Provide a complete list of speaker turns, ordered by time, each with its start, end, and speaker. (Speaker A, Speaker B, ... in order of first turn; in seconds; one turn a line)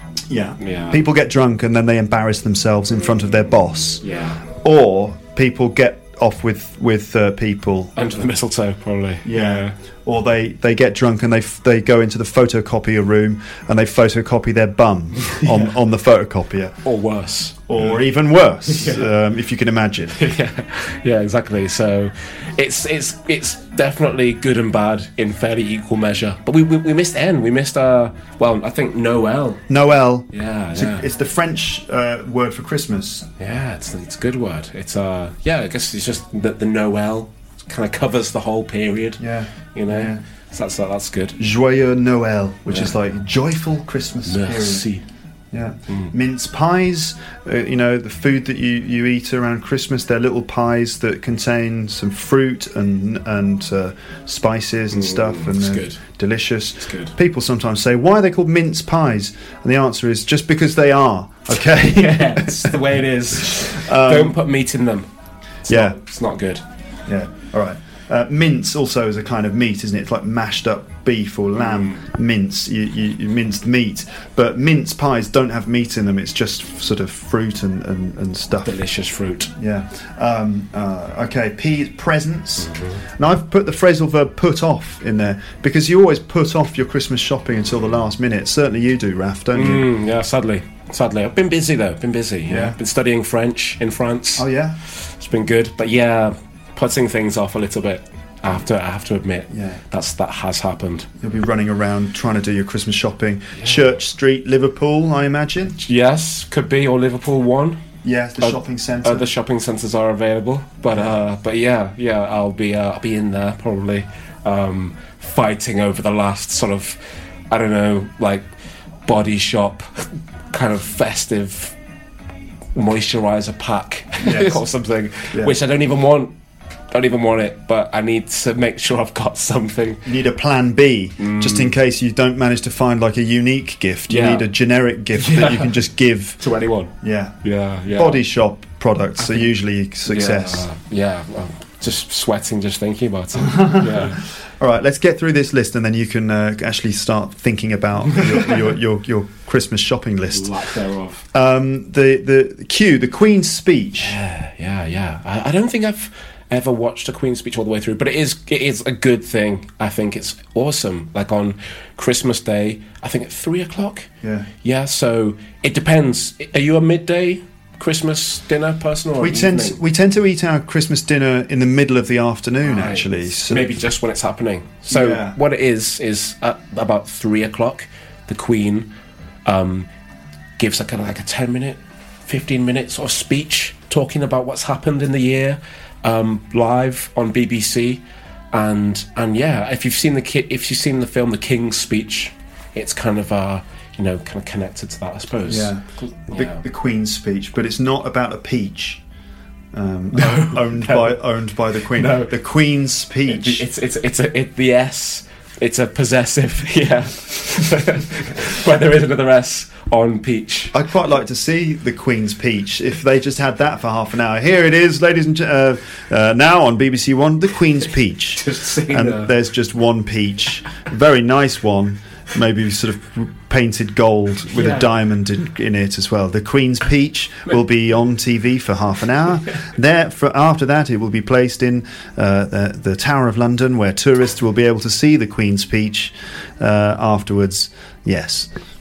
Speaker A: 0.3-4.0
Speaker B: 0.6-1.0
Speaker B: 2.9-4.5
Speaker A: 4.6-7.9
Speaker B: 8.0-9.7
Speaker A: 9.2-16.8
Speaker B: 15.2-15.7
Speaker B: 16.8-18.0
Speaker A: 17.7-20.2
Speaker B: 18.6-19.1
Speaker B: 20.2-29.6
Speaker A: 29.7-33.3
Speaker B: 30.3-31.0
Speaker B: 33.4-39.2
Speaker A: 39.2-40.2
Speaker B: 39.7-41.4
Speaker A: 41.4-44.8
Speaker B: 44.2-45.0
Speaker A: 45.5-64.4
Speaker B: 54.9-56.0
Speaker B: 56.8-57.1
Speaker B: 61.7-65.1
Speaker B: 65.6-66.6
Speaker A: 65.7-66.0
Speaker A: 67.1-78.8
Speaker B: 71.6-72.0
Speaker B: 78.6-79.5
Speaker A: 79.6-89.9
Speaker B: 82.6-83.0
Speaker B: 89.5-101.1
Speaker A: 92.5-92.8
Speaker A: 94.4-94.8
Speaker A: 99.5-99.8
Speaker A: 101.2-105.8
Speaker B: 105.8-107.8
Speaker A: 108.0-109.3
Speaker B: 108.4-117.0
Speaker B: 117.5-118.5
Speaker B: 119.0-121.7
Speaker B: 122.7-126.3
Speaker A: 124.2-124.6
Speaker B: 126.9-130.0
Speaker A: 130.0-136.4
Speaker B: 131.2-131.7
Speaker B: 134.1-134.5
Speaker B: 135.1-135.7
Speaker B: 136.4-138.2
Speaker A: 137.0-137.4
Speaker A: 137.9-140.7
Speaker B: 139.2-139.5
Speaker B: 140.1-144.2
Speaker A: 143.4-150.5
Speaker B: 150.3-151.2
Speaker A: 151.3-154.2
Speaker B: 154.0-164.1
Speaker A: 164.2-164.5
Speaker B: 164.6-169.8
Speaker A: 169.2-173.7
Speaker B: 172.6-178.9
Speaker A: 174.9-175.4
Speaker B: 179.4-179.9
Speaker B: 180.6-196.6
Speaker A: 195.4-199.0
Speaker A: 199.7-203.6
Speaker B: 200.1-201.2
Speaker B: 201.8-202.3
Speaker B: 203.3-210.7
Speaker A: 210.7-238.5
Speaker B: 218.4-219.3
Speaker B: 224.5-224.9